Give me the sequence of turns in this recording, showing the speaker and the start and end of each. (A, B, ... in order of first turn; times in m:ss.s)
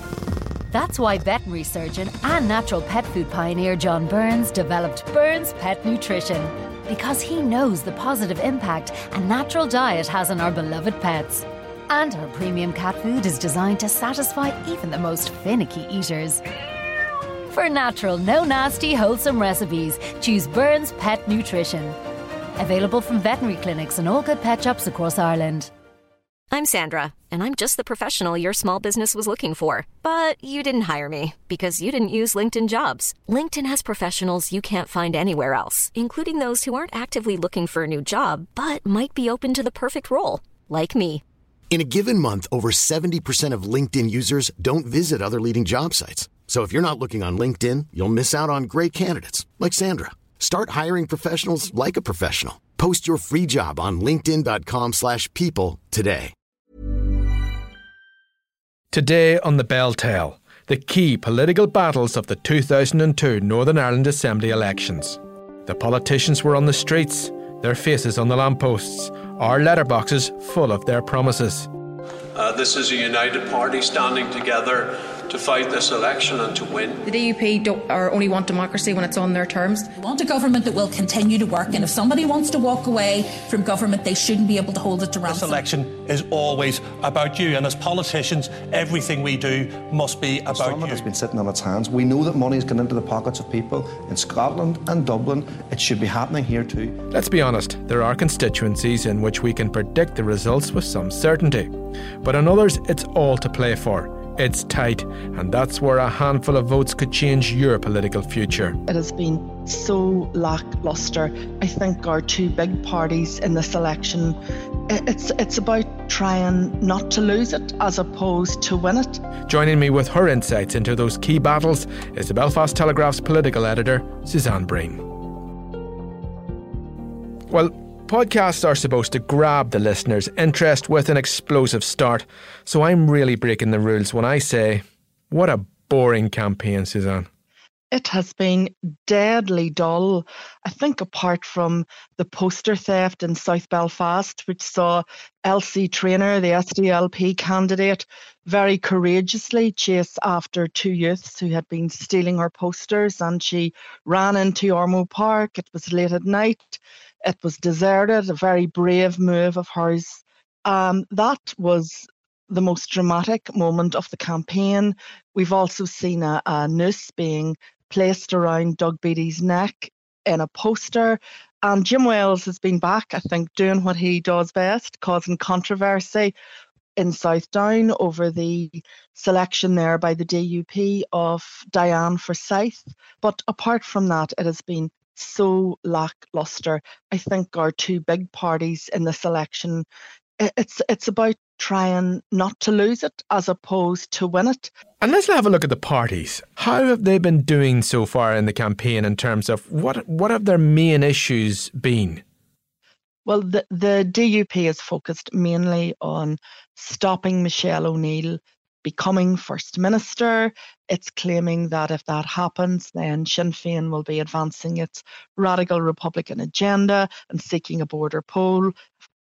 0:00.7-0:16.4 A
0:17.5-0:22.0 A
0:22.6-0:25.7 A
0:26.5-0:41.2 B
0:41.7-0:56.3 C
0:58.9-1:11.7 D
1:12.3-1:17.0 E
1:17.0-1:19.9 F
1:19.9-1:25.6 G
1:25.2-1:31.1 H
1:30.5-1:37.0 I
1:37.1-1:48.8 D
1:48.9-1:54.4 J
1:54.9-1:59.2 J
1:59.5-2:05.1 D
2:07.5-2:17.3 D
2:17.9-2:56.3 J
2:57.0-3:09.8 J
3:10.4-3:14.7 J
3:15.0-3:22.2 D
3:23.2-3:38.8 J